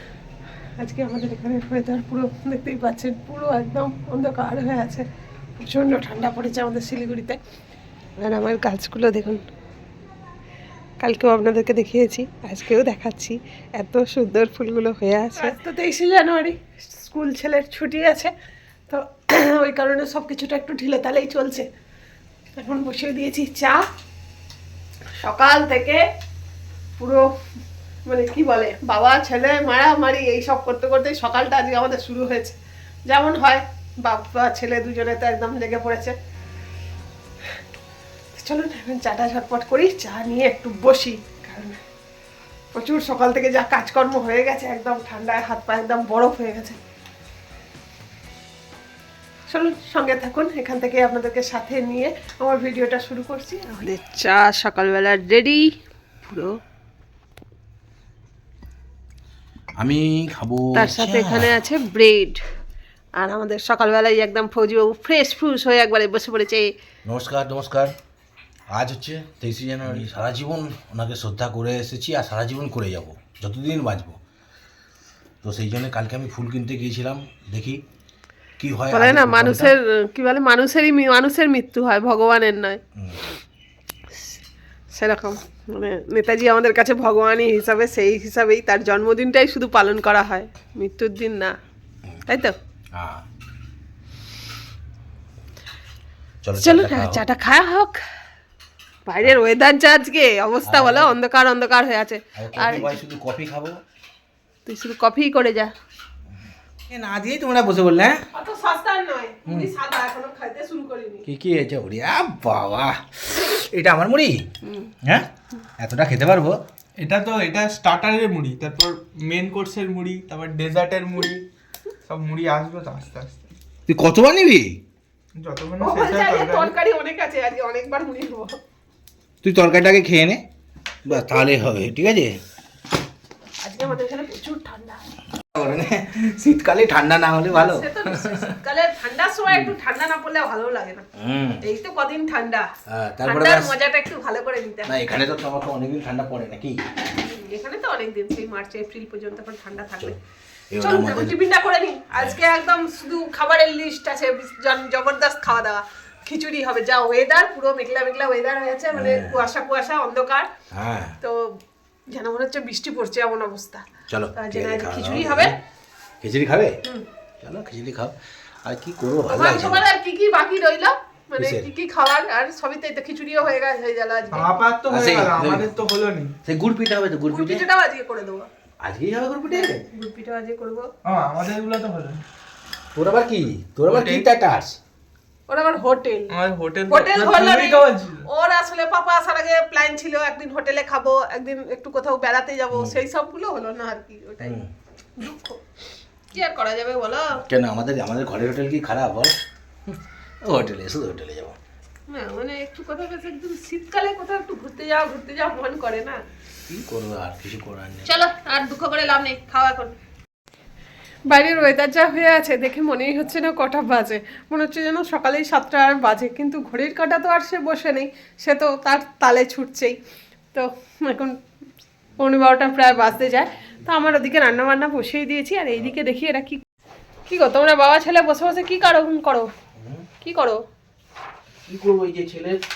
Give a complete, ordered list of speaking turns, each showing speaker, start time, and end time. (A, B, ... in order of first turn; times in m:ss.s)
0:00.8-0:07.4 A
0:08.2-0:09.4 A
0:11.0-0:18.3 A
0:18.9-0:21.7 A
0:22.6-0:23.8 A
0:25.2-0:26.0 A
0:27.0-0:27.3 A
0:28.1-0:36.1 A
0:38.3-0:41.8 A
0:42.7-0:46.8 A
0:49.5-0:55.7 A
0:56.2-0:56.6 A
0:59.8-1:01.6 B
1:00.7-1:02.4 A
1:03.2-1:06.7 A
1:07.0-1:07.9 B
1:08.7-1:14.2 B
1:15.4-1:17.8 B
1:18.6-1:19.7 B
1:18.9-1:22.8 A
1:23.0-1:23.2 B
1:24.9-1:31.5 A
1:32.2-1:32.5 A
1:32.9-1:33.2 B
1:36.4-1:37.2 B
1:36.6-1:38.0 A
1:39.0-1:43.0 A
1:40.6-1:41.2 B
1:42.4-1:43.8 B
1:44.6-1:45.7 A
1:46.9-1:48.2 B
1:48.3-1:51.2 A
1:49.4-1:49.7 B
1:51.2-1:54.5 B
1:54.6-1:54.9 A
1:55.0-1:56.6 B
1:57.0-2:01.4 C
2:02.0-2:03.5 C
2:03.9-2:04.8 B
2:05.3-2:06.7 C
2:05.8-2:08.6 A
2:09.4-2:10.4 B
2:11.0-2:12.4 B
2:13.6-2:15.1 A
2:15.4-2:18.6 B
2:17.5-2:21.1 A
2:19.5-2:19.7 B
2:21.2-2:21.6 B
2:21.6-2:22.7 A
2:22.9-2:23.7 B
2:23.2-2:25.0 A
2:24.9-2:26.8 B
2:27.1-2:30.2 A
2:30.7-2:31.4 B
2:30.8-2:40.5 A
2:32.1-2:32.4 B
2:38.9-2:39.5 B
2:40.7-2:41.2 B
2:41.2-2:45.6 A
2:44.1-2:45.6 B
2:46.2-2:46.8 B
2:47.4-2:49.8 B
2:49.3-2:54.5 A
2:51.4-2:51.7 B
2:54.3-2:56.4 C
2:54.9-2:55.8 B
2:56.4-2:57.6 B
2:57.3-2:58.5 A
2:58.8-2:59.8 B
2:59.5-3:00.9 A
3:01.0-3:02.2 C
3:02.9-3:04.8 B
3:03.9-3:04.3 C
3:05.5-3:06.3 A
3:06.3-3:08.2 C
3:06.9-3:14.6 A
3:12.7-3:13.0 B
3:14.4-3:14.7 B
3:15.2-3:15.6 A
3:16.3-3:17.4 A
3:17.3-3:19.3 B
3:19.8-3:21.6 B
3:22.1-3:26.2 A
3:26.7-3:28.1 B
3:28.0-3:30.0 A
3:31.3-3:40.0 A
3:40.5-3:41.4 A
3:42.2-3:46.6 A
3:47.2-3:49.5 A
3:49.8-3:50.1 B
3:50.2-3:50.6 A
3:51.6-3:52.6 B